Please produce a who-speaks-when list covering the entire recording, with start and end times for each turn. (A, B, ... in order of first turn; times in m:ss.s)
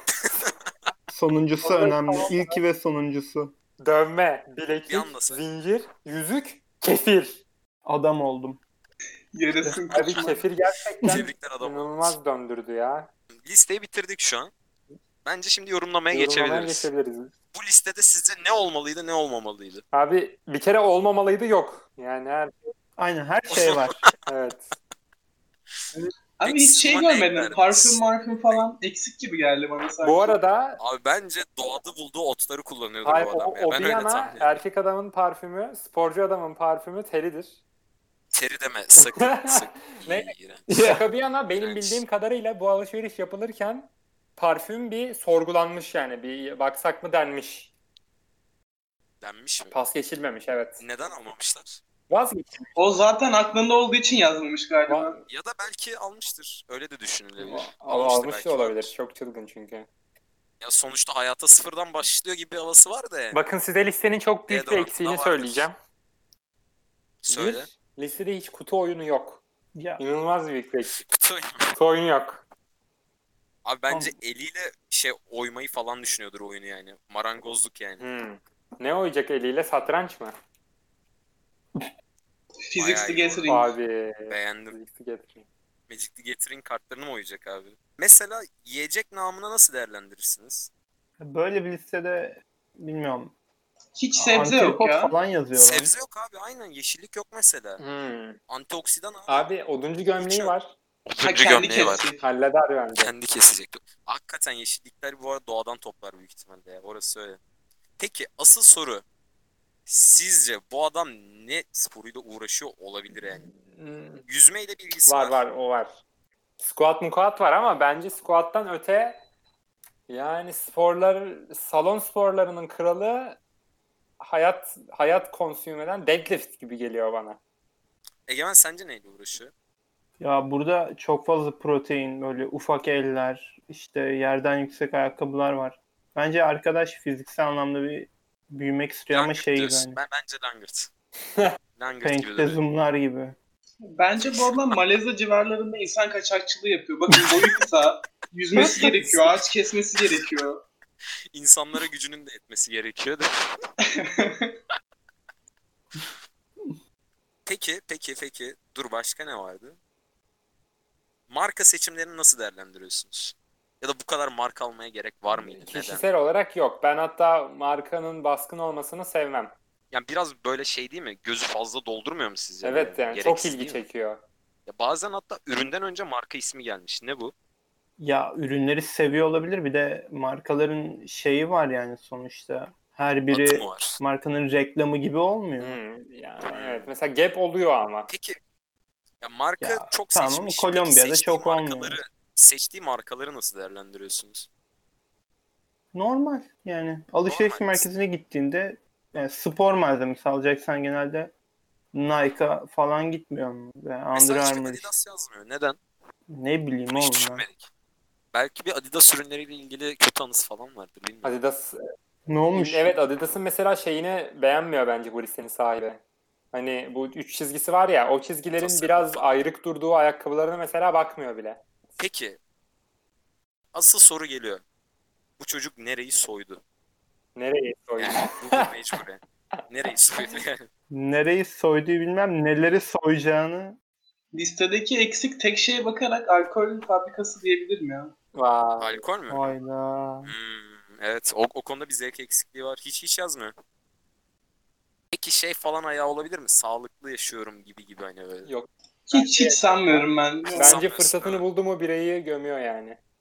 0:00.2-0:00.5 A
0:01.1-0:03.5 B
0:01.6-0:02.6 C
0:03.8-0:07.4 C
0:04.9-0:05.4 A
0:07.8-0:08.6 B
0:09.4-0:10.4 D
0:09.9-0:13.1 C
0:11.0-0:12.2 A
0:13.4-0:14.5 A
0:15.2-0:16.9 A
0:16.1-0:17.3 C
0:17.5-0:19.8 A
0:19.9-0:22.7 C
0:23.0-0:24.0 B
0:23.5-0:24.1 A
0:24.3-0:24.8 C
0:26.4-0:30.4 D
0:26.4-0:28.7 A
0:30.0-0:30.8 C
0:30.8-0:34.5 A
0:33.0-0:37.6 C
0:38.3-0:40.8 A
0:39.0-0:47.7 C
0:40.7-0:41.0 B
0:41.6-0:42.0 A
0:49.2-0:49.7 A
0:49.7-0:50.8 C
0:50.8-0:51.8 A
0:52.1-0:52.9 C
0:52.8-0:55.2 D
0:54.9-0:55.2 C
0:55.3-0:58.9 A
0:57.4-0:59.9 C
1:00.6-1:03.4 A
1:03.3-1:05.8 C
1:04.5-1:05.7 A
1:07.2-1:07.7 A
1:07.3-1:09.4 C
1:09.8-1:10.0 B
1:10.0-1:11.0 C
1:10.9-1:11.8 A
1:11.8-1:12.4 C
1:13.6-1:18.0 A
1:13.9-1:14.2 B
1:18.0-1:20.3 C
1:22.7-1:23.7 D
1:22.8-1:23.5 A
1:23.5-1:25.5 C
1:24.3-1:24.8 A
1:25.9-1:30.7 A
1:31.2-1:33.3 B
1:34.0-1:35.1 D
1:34.2-1:35.9 B
1:35.6-1:37.8 A
1:37.8-1:38.4 C
1:38.5-1:39.4 A
1:39.3-1:40.7 C
1:40.2-1:40.5 A
1:41.1-1:42.1 A
1:41.2-1:42.2 D
1:42.2-1:43.1 C
1:43.0-1:47.4 A
1:48.0-1:49.0 A
1:49.9-1:53.5 A
1:53.3-1:54.2 C
1:54.3-1:55.4 A
1:55.1-1:56.0 C
1:56.6-1:59.2 C
2:00.1-2:03.4 C
2:04.2-2:07.4 C
2:08.3-2:09.5 A
2:10.2-2:20.0 B
2:19.1-2:20.9 A
2:21.8-2:22.6 A
2:22.0-2:23.4 B
2:23.9-2:30.6 D
2:24.2-2:24.8 A
2:28.7-2:29.2 B
2:31.3-2:33.3 A
2:33.9-2:34.6 D
2:37.5-2:39.8 A
2:41.3-2:46.1 A
2:45.3-2:49.5 C
2:49.9-2:53.8 A
2:52.6-2:54.2 C
2:54.7-2:57.3 A
2:58.0-3:05.8 B
3:03.3-3:04.0 A
3:05.6-3:08.1 C
3:06.5-3:06.9 A
3:08.1-3:08.4 A
3:09.2-3:14.5 A
3:09.6-3:12.0 B
3:15.9-3:21.3 B
3:17.3-3:17.9 A
3:21.9-3:24.9 B
3:24.1-3:25.8 A
3:26.3-3:27.5 B
3:26.9-3:27.7 A
3:28.3-3:31.3 A
3:31.2-3:31.8 C
3:32.3-3:32.9 B
3:32.5-3:36.0 C
3:36.5-3:41.6 C
3:38.6-3:39.4 A
3:42.0-3:42.4 A
3:43.7-3:44.6 A
3:45.4-3:46.6 A
3:47.4-3:48.7 C
3:48.0-3:50.7 A
3:50.9-3:53.8 B
3:54.3-3:58.1 D
3:58.4-3:59.0 C
3:58.8-3:59.6 A
3:59.3-4:00.3 B
4:00.2-4:03.5 A
4:05.1-4:08.5 A
4:08.4-4:13.0 C
4:09.1-4:10.8 D
4:10.5-4:11.4 A